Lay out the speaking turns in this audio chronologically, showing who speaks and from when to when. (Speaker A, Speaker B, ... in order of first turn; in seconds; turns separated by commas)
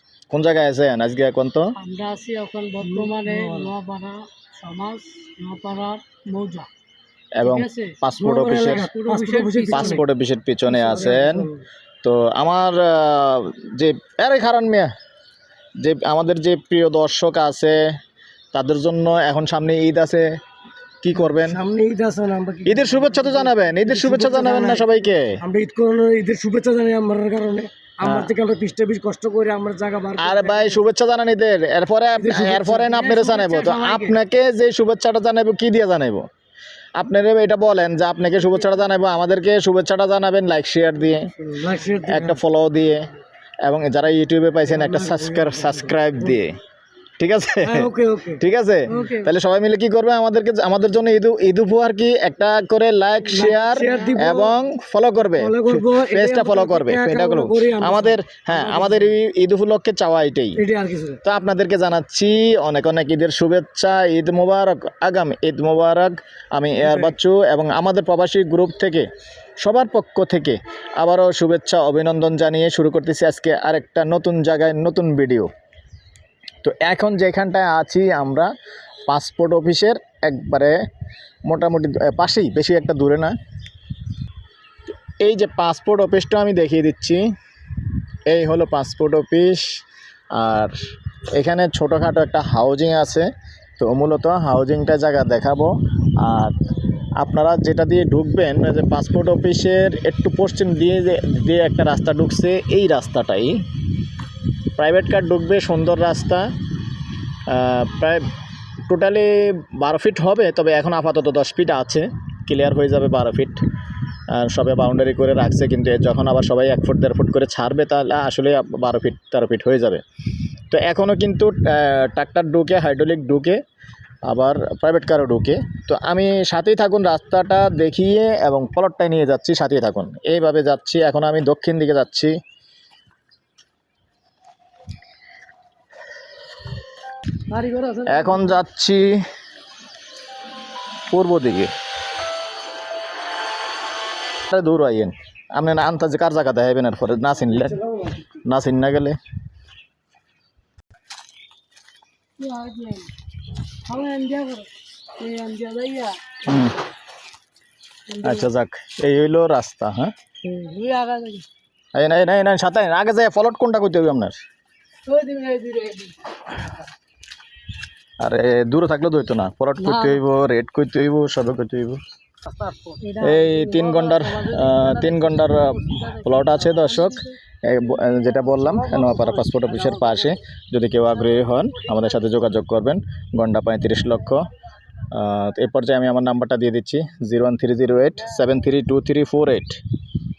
Speaker A: 0.3-1.7, Speaker B: 1.8-6.7, Speaker C: 2.8-3.7, Speaker A: 7.4-8.9, Speaker B: 7.4-10.0, Speaker C: 8.2-10.0, Speaker A: 9.7-11.5, Speaker C: 10.7-11.6, Speaker A: 12.0-14.9, Speaker A: 15.8-17.8, Speaker A: 18.5-20.3, Speaker A: 21.0-21.6, Speaker C: 21.1-30.9, Speaker A: 22.7-25.4, Speaker A: 28.0-28.3, Speaker A: 30.2-36.2, Speaker C: 32.2-34.2, Speaker A: 37.0-41.3, Speaker C: 41.4-42.4, Speaker A: 42.0-43.0, Speaker A: 43.6-46.5, Speaker C: 44.6-46.4, Speaker A: 47.2-60.6, Speaker C: 47.6-49.1, Speaker B: 48.9-49.3, Speaker C: 53.3-54.6, Speaker B: 53.7-54.1, Speaker C: 55.2-59.1, Speaker C: 60.6-61.2, Speaker A: 61.2-69.1, Speaker C: 66.8-67.2, Speaker A: 69.6-75.5, Speaker A: 76.6-78.5, Speaker A: 79.1-80.8, Speaker A: 81.5-83.3, Speaker A: 85.2-87.2, Speaker A: 88.3-89.8, Speaker A: 90.3-90.8, Speaker A: 91.3-96.5, Speaker A: 97.2-103.6, Speaker A: 104.8-106.5, Speaker A: 107.5-108.2, Speaker A: 108.9-113.6, Speaker A: 114.3-120.0, Speaker A: 120.7-123.6, Speaker A: 124.3-132.3, Speaker B: 137.5-138.6, Speaker A: 138.1-139.2, Speaker A: 141.1-141.7, Speaker A: 144.4-147.8, Speaker C: 147.5-148.3, Speaker A: 148.4-149.2, Speaker B: 152.4-153.1, Speaker B: 153.9-156.2, Speaker A: 156.4-156.8, Speaker B: 158.1-158.5, Speaker A: 158.2-160.1, Speaker B: 160.4-161.5, Speaker A: 161.9-164.4, Speaker B: 165.1-166.3, Speaker A: 168.2-172.0, Speaker B: 169.8-170.2, Speaker B: 173.0-177.4, Speaker A: 173.2-184.4, Speaker C: 178.5-180.4, Speaker A: 185.1-189.8